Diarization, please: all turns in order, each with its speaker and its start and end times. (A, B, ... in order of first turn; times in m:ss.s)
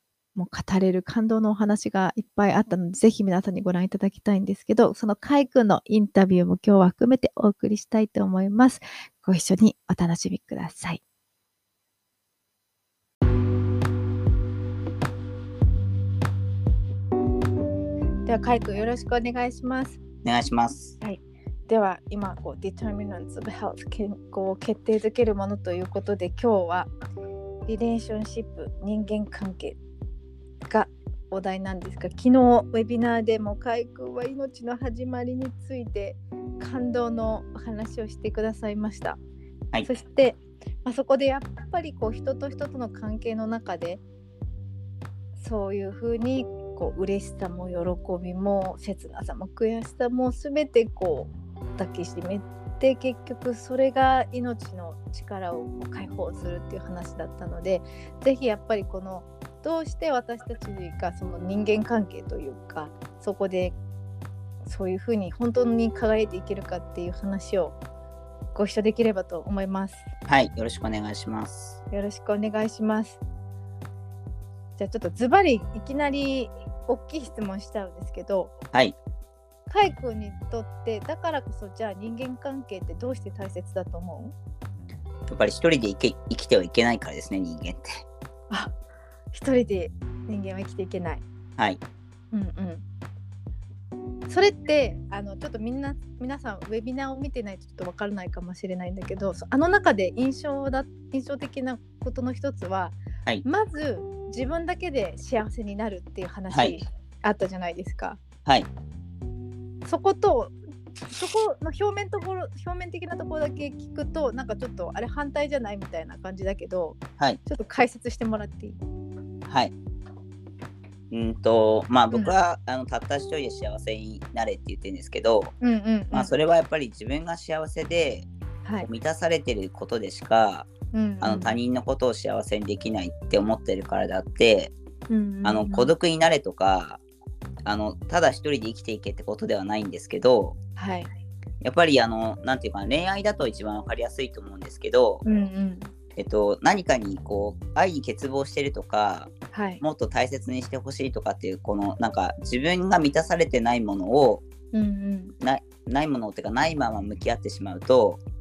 0:00.4-0:11.0 A
0:18.2-0:20.0 A
0:20.2-0:21.0 B
0:21.0-0:26.9 A
0:27.7-0:29.8 A
0:30.6-0:39.2 A
0:39.8-0:44.0 A
0:45.4-1:03.8 A
1:04.6-1:07.8 A
1:08.6-1:10.0 A
1:10.3-1:11.8 B
1:11.9-1:13.2 A
1:14.8-1:18.5 A
1:19.7-1:24.4 A
1:25.3-1:27.9 B
1:29.3-1:31.2 A
1:32.3-1:32.8 A
1:34.3-1:48.2 A
1:46.5-1:46.8 B
1:49.8-1:50.5 A
1:51.1-1:58.8 A
1:59.5-1:59.7 B
2:01.1-2:05.5 B
2:05.6-2:06.3 A
2:06.1-2:08.3 B
2:08.8-2:10.7 B
2:10.9-2:11.5 A
2:11.2-2:14.7 B
2:15.1-2:15.9 A
2:15.4-2:17.0 B
2:17.7-2:20.6 B
2:20.8-2:21.1 A
2:21.6-2:25.2 B
2:25.2-2:25.9 A
2:26.2-2:34.4 B
2:29.5-2:29.8 A
2:34.7-2:35.3 A
2:35.4-2:38.2 B